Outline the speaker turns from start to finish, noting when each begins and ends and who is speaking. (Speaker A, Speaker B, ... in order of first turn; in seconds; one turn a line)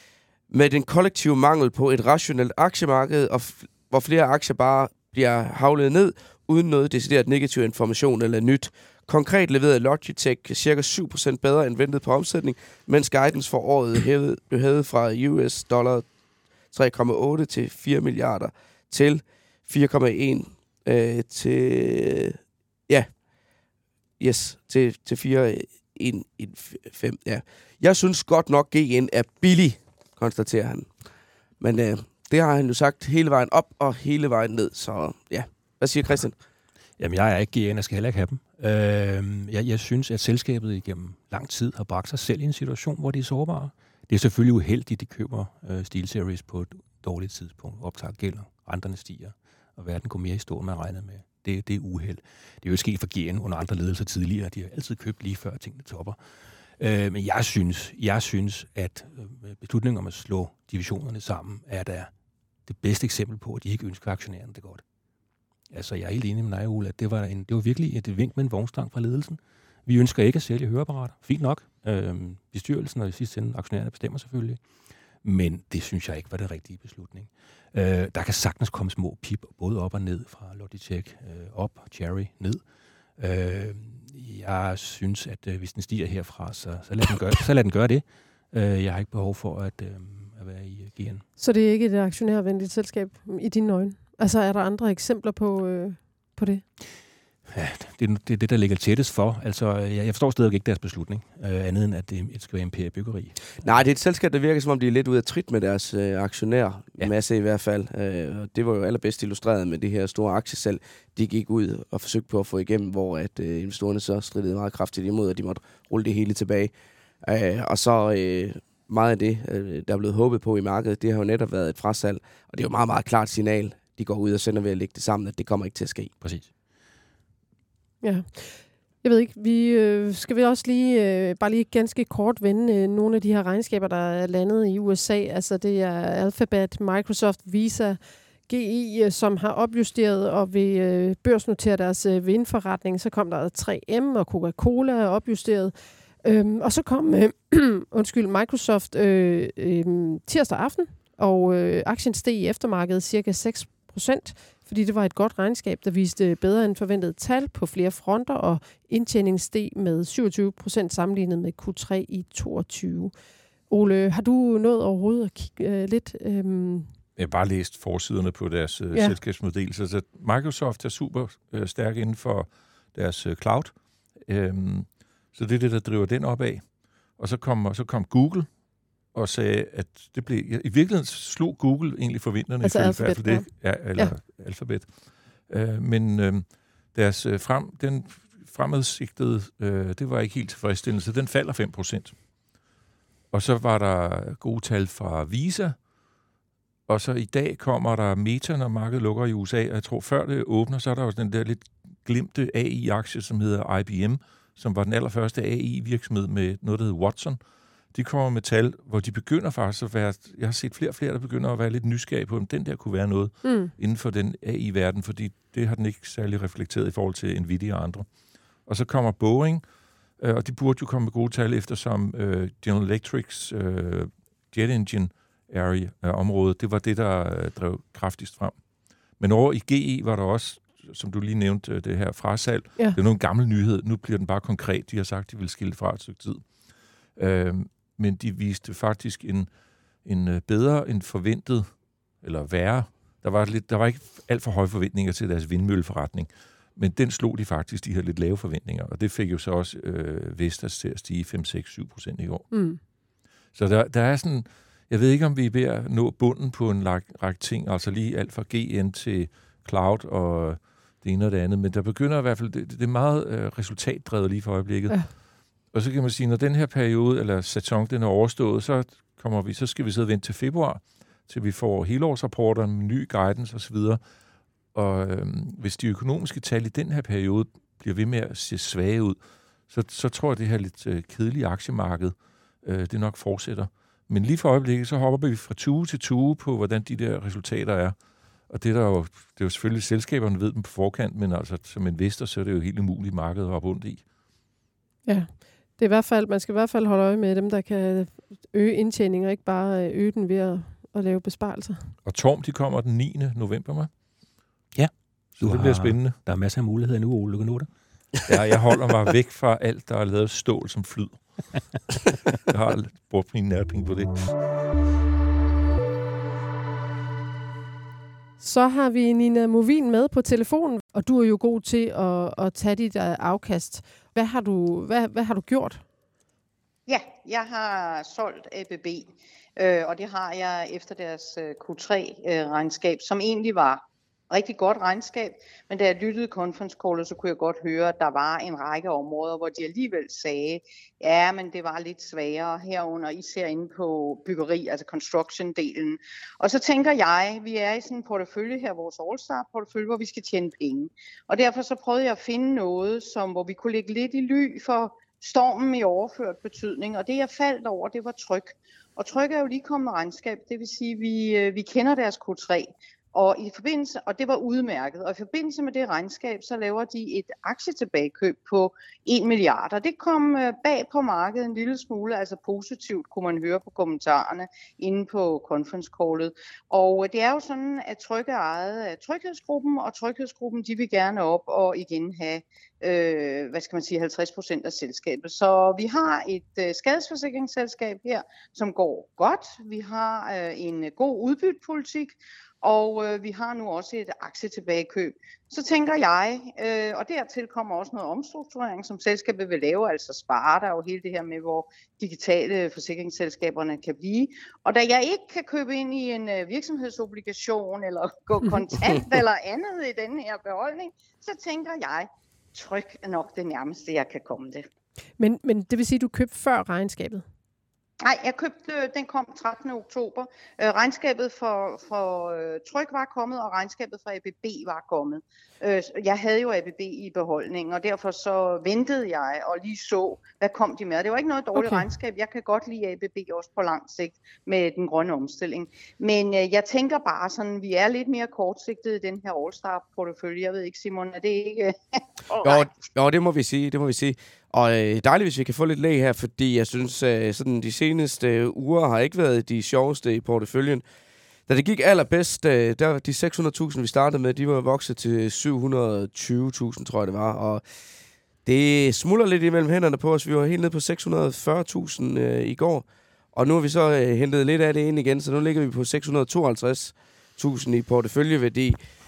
Speaker A: 0.5-16.1
Speaker A: 16.7-23.2
Speaker A: 24.2-30.9
Speaker A: 31.6-36.4
Speaker B: 37.0-56.2
Speaker B: 56.8-62.1
Speaker B: 62.7-64.8
Speaker B: 65.7-74.6
Speaker B: 75.2-82.6
Speaker B: 83.2-91.2
Speaker C: 91.4-96.6
Speaker B: 97.5-103.7
Speaker A: 103.6-116.7
Speaker A: 117.2-126.1
Speaker B: 126.2-126.5
Speaker C: 128.0-163.1
Speaker C: 163.7-166.9
Speaker D: 167.2-178.5
Speaker D: 179.1-192.2
Speaker C: 182.6-184.1
Speaker D: 193.3-195.8
Speaker D: 196.9-207.4
Speaker D: 207.9-218.1
Speaker C: 213.4-213.7
Speaker D: 218.7-219.6
Speaker D: 220.2-228.6
Speaker D: 229.2-236.5
Speaker D: 237.2-239.5
Speaker D: 240.0-252.5
Speaker C: 252.5-252.8
Speaker D: 253.5-265.1
Speaker D: 265.7-274.0
Speaker D: 274.7-288.0
Speaker D: 288.5-294.0
Speaker C: 295.1-301.9
Speaker D: 302.1-303.9
Speaker B: 304.8-307.7
Speaker D: 305.4-306.2
Speaker D: 308.2-314.4
Speaker C: 318.4-325.8
Speaker E: 326.9-414.6
Speaker C: 415.2-417.2
Speaker E: 418.0-442.8
Speaker C: 431.6-431.9
Speaker A: 442.4-450.9
Speaker A: 451.5-457.6
Speaker A: 458.4-468.8